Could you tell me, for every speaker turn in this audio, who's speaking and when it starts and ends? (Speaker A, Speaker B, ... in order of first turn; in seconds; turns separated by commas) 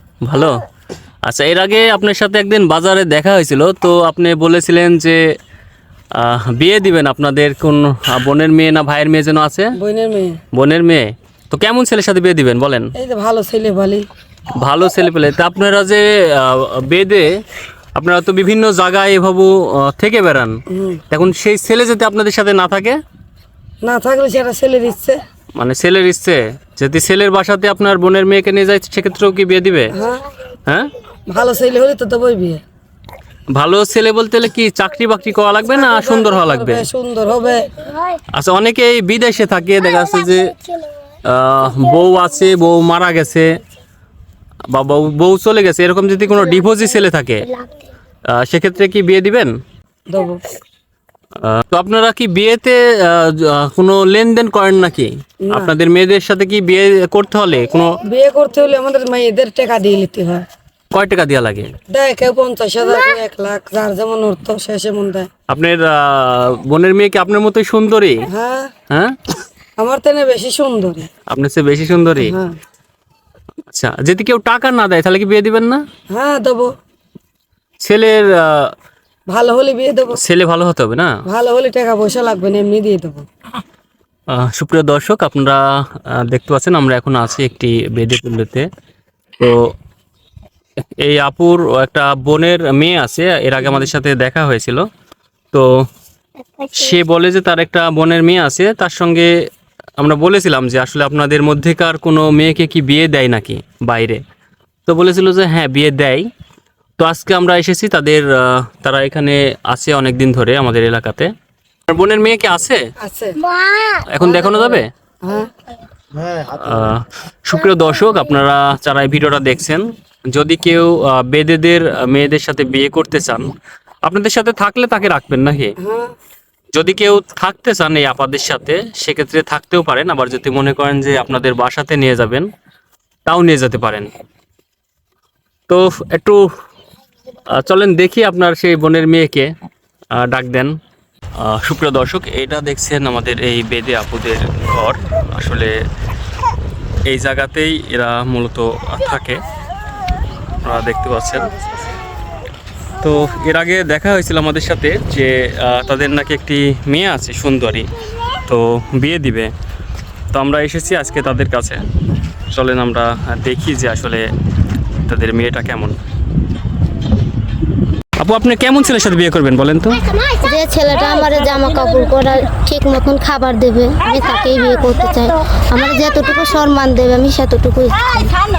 Speaker A: 0.2-0.6, Speaker A: 1.2-5.2, Speaker A: 6.2-9.7, Speaker B: 9.8-10.4, Speaker A: 10.5-12.9, Speaker B: 13.0-14.1, Speaker A: 14.6-17.4, Speaker A: 18.0-23.0, Speaker B: 20.7-21.0, Speaker B: 23.8-25.2, Speaker A: 25.6-29.9, Speaker B: 29.9-30.3, Speaker A: 30.7-30.9, Speaker B: 31.3-32.6, Speaker A: 33.5-36.9, Speaker B: 35.7-37.7, Speaker A: 38.3-40.6, Speaker A: 41.2-43.6, Speaker A: 44.7-47.5, Speaker A: 48.3-49.5, Speaker B: 50.1-50.4, Speaker A: 51.4-58.0, Speaker B: 55.5-55.7, Speaker B: 58.1-60.4, Speaker A: 60.9-61.7, Speaker B: 61.9-65.3, Speaker A: 65.5-68.3, Speaker B: 68.3-68.7, Speaker A: 68.9-69.2, Speaker B: 69.8-71.1, Speaker A: 71.3-72.4, Speaker B: 72.2-72.5, Speaker A: 73.7-75.8, Speaker B: 76.1-76.7, Speaker A: 77.8-78.7, Speaker B: 79.3-80.2, Speaker A: 80.2-81.1, Speaker B: 81.3-83.3, Speaker A: 84.3-88.7, Speaker A: 89.4-89.7, Speaker A: 91.0-94.9, Speaker A: 96.7-99.3, Speaker A: 100.0-104.2, Speaker A: 104.9-106.3, Speaker A: 107.0-111.3, Speaker A: 111.9-112.9, Speaker B: 113.0-113.4, Speaker C: 113.6-114.0, Speaker A: 114.0-114.9, Speaker B: 114.2-115.5, Speaker A: 116.3-123.5, Speaker A: 124.1-125.7, Speaker B: 125.8-126.2, Speaker A: 126.7-132.5, Speaker A: 133.3-134.1, Speaker A: 135.7-136.5, Speaker A: 137.5-139.5, Speaker A: 140.1-140.7, Speaker A: 141.4-145.7, Speaker A: 147.1-149.4, Speaker A: 150.6-151.5, Speaker B: 151.4-152.0, Speaker A: 153.0-157.9, Speaker A: 158.5-159.5, Speaker A: 160.3-161.8, Speaker A: 162.5-164.3, Speaker A: 165.1-165.9, Speaker A: 168.2-170.2, Speaker C: 170.2-178.4